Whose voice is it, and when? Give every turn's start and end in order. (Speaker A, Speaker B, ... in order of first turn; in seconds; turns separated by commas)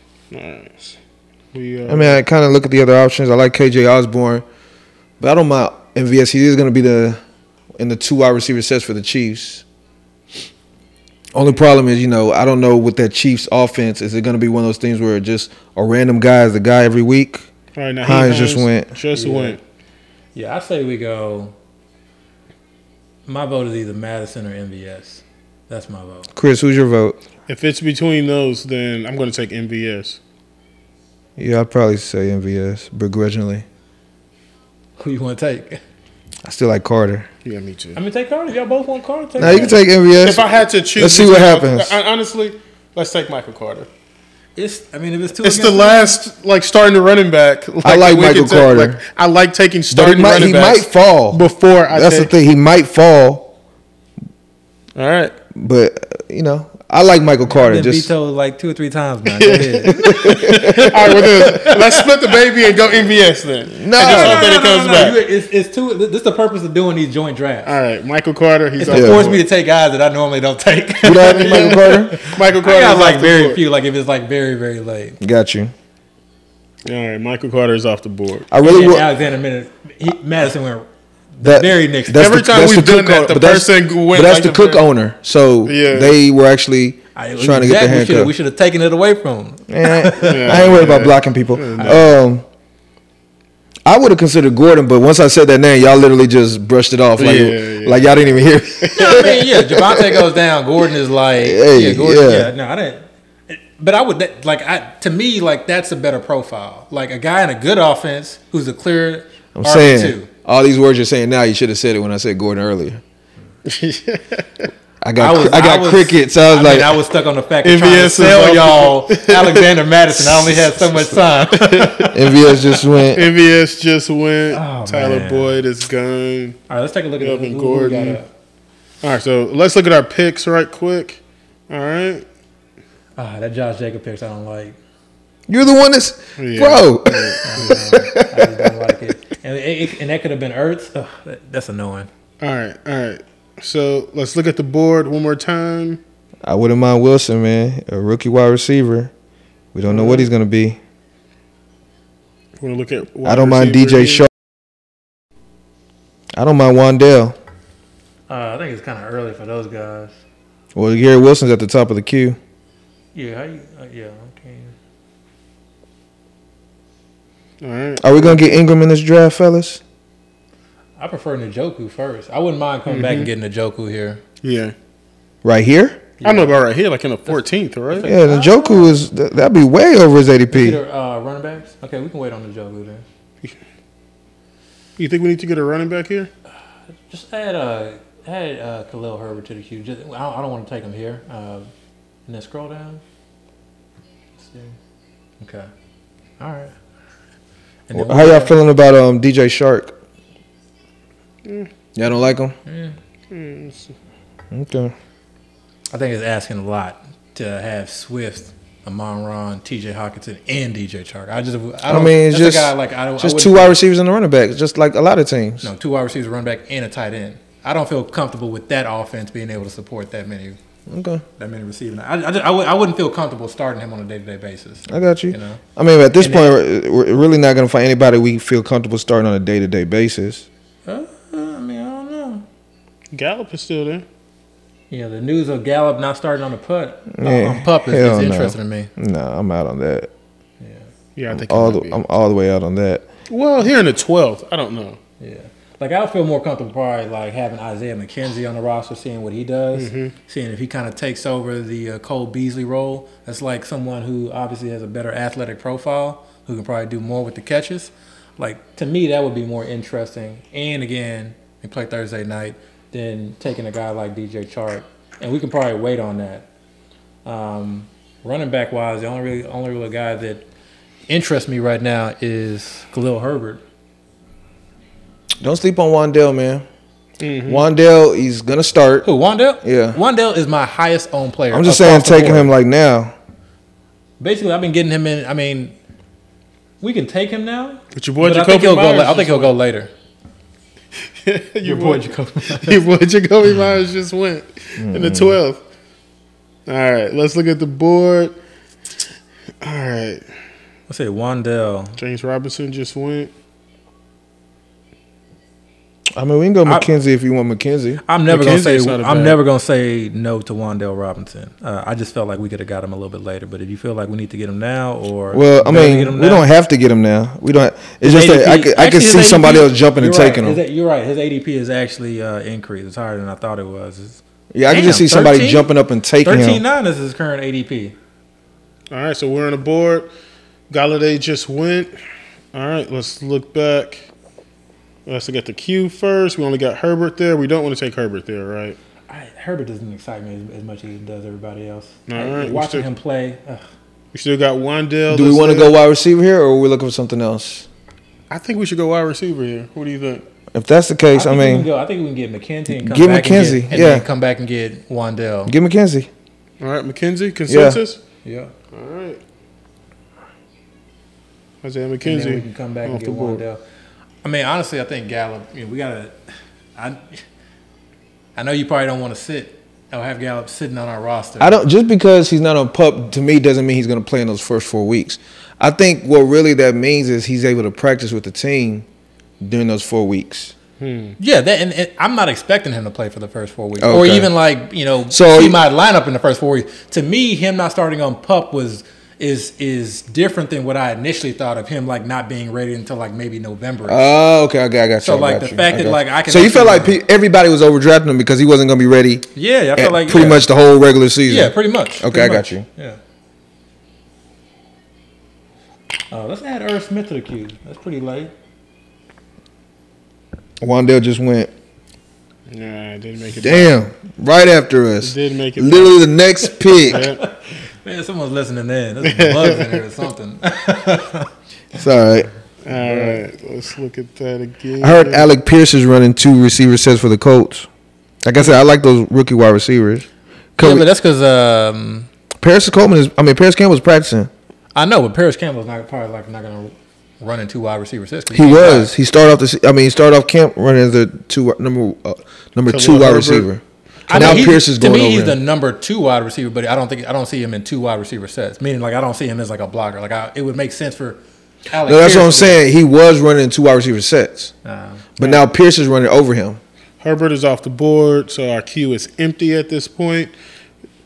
Speaker A: 0.3-1.0, Speaker A: 1.5-2.2, Speaker B: 1.9-4.4, Speaker B: 5.2-7.2, Speaker B: 7.8-9.6, Speaker B: 11.3-17.5, Speaker A: 17.7-19.6, Speaker B: 18.0-18.9, Speaker C: 19.1-19.6, Speaker C: 20.3-21.5, Speaker C: 23.3-26.3, Speaker B: 26.3-27.2, Speaker A: 27.5-30.2, Speaker B: 31.4-33.6, Speaker C: 35.0-35.8, Speaker B: 36.4-37.3, Speaker A: 37.4-38.0, Speaker C: 37.9-39.8, Speaker B: 39.4-40.4, Speaker A: 40.2-43.9, Speaker B: 41.0-41.9, Speaker C: 44.5-46.2, Speaker A: 45.4-52.3, Speaker B: 47.8-49.0, Speaker B: 49.9-53.5, Speaker A: 55.0-55.3, Speaker B: 55.5-58.1, Speaker C: 57.5-62.3, Speaker A: 59.3-65.2, Speaker B: 60.0-61.0, Speaker B: 63.8-64.5, Speaker C: 64.0-67.8, Speaker A: 67.6-69.4, Speaker C: 68.8-75.2, Speaker B: 68.9-69.3, Speaker B: 71.0-72.2, Speaker A: 71.2-73.6, Speaker B: 75.2-75.7, Speaker A: 76.8-78.5, Speaker B: 78.5-79.1, Speaker C: 78.6-82.4, Speaker B: 81.4-88.3, Speaker A: 82.1-84.8, Speaker A: 85.6-86.2, Speaker C: 87.2-91.0, Speaker B: 89.7-92.4, Speaker A: 90.2-92.1, Speaker B: 93.8-100.2, Speaker A: 97.2-98.2, Speaker A: 98.8-99.2, Speaker C: 98.9-110.3, Speaker B: 101.4-102.5, Speaker B: 109.5-113.0, Speaker A: 113.6-114.7, Speaker B: 115.0-117.0, Speaker C: 115.2-122.7, Speaker A: 117.6-119.7, Speaker A: 121.5-122.2, Speaker B: 122.1-123.3, Speaker A: 123.1-126.6, Speaker C: 124.5-125.6, Speaker C: 126.7-128.3, Speaker A: 127.2-128.2, Speaker A: 129.0-132.2, Speaker C: 133.2-134.8, Speaker B: 135.5-138.8, Speaker A: 136.4-137.8, Speaker C: 137.4-142.1, Speaker A: 142.4-146.0, Speaker B: 146.4-149.1, Speaker B: 149.7-150.8, Speaker A: 149.9-150.3, Speaker A: 152.6-154.3, Speaker B: 153.2-154.3, Speaker B: 156.3-157.3, Speaker C: 158.3-160.2, Speaker B: 160.7-162.4, Speaker C: 163.1-164.7, Speaker A: 167.6-168.4, Speaker B: 168.0-169.8, Speaker C: 171.0-174.2, Speaker A: 172.9-173.3, Speaker A: 174.4-174.7, Speaker B: 175.4-176.0, Speaker C: 176.2-176.5, Speaker A: 176.2-178.1, Speaker C: 177.2-179.0, Speaker B: 178.0-180.8, Speaker C: 180.5-183.0, Speaker A: 185.0-186.3, Speaker C: 187.1-191.7, Speaker C: 192.3-193.0, Speaker C: 194.4-194.8, Speaker C: 195.4-195.7, Speaker C: 196.4-196.7, Speaker C: 197.9-198.5, Speaker B: 197.9-199.9, Speaker A: 201.4-201.7, Speaker B: 201.9-202.6, Speaker C: 202.7-202.9, Speaker A: 203.3-203.9, Speaker B: 204.5-204.9, Speaker C: 205.9-213.8, Speaker B: 211.9-215.7, Speaker C: 215.6-220.6, Speaker B: 220.9-221.2, Speaker C: 221.4-225.6, Speaker B: 224.9-230.4, Speaker C: 226.2-226.6, Speaker C: 230.8-232.4, Speaker A: 233.1-234.0, Speaker C: 234.9-238.9, Speaker B: 237.1-240.1, Speaker C: 240.6-240.9, Speaker A: 241.2-242.0, Speaker B: 241.3-243.1, Speaker A: 243.3-245.0, Speaker C: 245.2-266.5, Speaker A: 249.7-250.1, Speaker C: 267.2-270.4, Speaker C: 271.1-273.6, Speaker B: 275.4-276.6, Speaker A: 277.2-277.6, Speaker B: 277.5-279.1, Speaker C: 279.0-282.5, Speaker B: 279.6-280.0, Speaker B: 281.5-283.1, Speaker C: 284.2-285.7, Speaker C: 286.8-289.9, Speaker A: 287.9-289.5, Speaker A: 291.2-295.6, Speaker C: 291.6-292.8, Speaker B: 294.8-295.4, Speaker A: 296.7-298.4, Speaker A: 299.6-300.2, Speaker C: 300.9-301.9, Speaker A: 302.0-303.3, Speaker B: 306.1-308.0, Speaker C: 306.6-306.9, Speaker C: 308.1-316.4, Speaker A: 308.3-309.4, Speaker B: 315.3-320.6, Speaker C: 318.0-325.7, Speaker B: 324.5-326.6, Speaker C: 326.2-327.9, Speaker A: 328.9-330.1, Speaker A: 330.7-331.9, Speaker A: 332.5-334.1, Speaker A: 335.1-338.8, Speaker C: 339.1-343.6, Speaker A: 342.1-342.9, Speaker A: 344.1-345.7, Speaker B: 345.1-347.7, Speaker A: 348.3-350.2, Speaker B: 350.5-351.7, Speaker C: 351.1-355.5, Speaker B: 352.7-354.0, Speaker B: 355.5-356.1, Speaker A: 356.6-358.0, Speaker B: 357.5-357.8, Speaker C: 358.2-358.5, Speaker A: 358.7-359.2, Speaker A: 361.6-363.4, Speaker C: 362.0-363.6, Speaker C: 364.2-366.2, Speaker C: 366.8-367.2, Speaker C: 368.4-371.6, Speaker B: 371.4-378.9, Speaker B: 379.4-380.5, Speaker A: 380.8-381.1, Speaker C: 381.2-394.1, Speaker B: 383.8-384.3, Speaker B: 385.1-385.6, Speaker B: 393.9-402.6, Speaker C: 395.0-397.0, Speaker C: 399.3-400.5, Speaker C: 401.3-403.0, Speaker C: 406.1-408.3, Speaker B: 410.6-411.5, Speaker A: 412.5-413.7, Speaker B: 413.4-417.1, Speaker A: 415.0-416.0, Speaker A: 416.9-417.2, Speaker C: 416.9-421.3, Speaker A: 419.0-419.8, Speaker B: 421.7-422.3, Speaker A: 422.6-425.3, Speaker C: 422.7-423.2, Speaker B: 424.8-427.7, Speaker B: 428.2-430.9, Speaker C: 430.6-432.1, Speaker B: 432.4-434.3, Speaker C: 434.7-438.9, Speaker B: 438.3-445.4, Speaker A: 442.7-443.5, Speaker C: 444.1-452.6, Speaker A: 444.1-444.4, Speaker B: 451.8-454.5, Speaker C: 454.6-455.1, Speaker B: 455.2-456.6, Speaker A: 457.0-460.3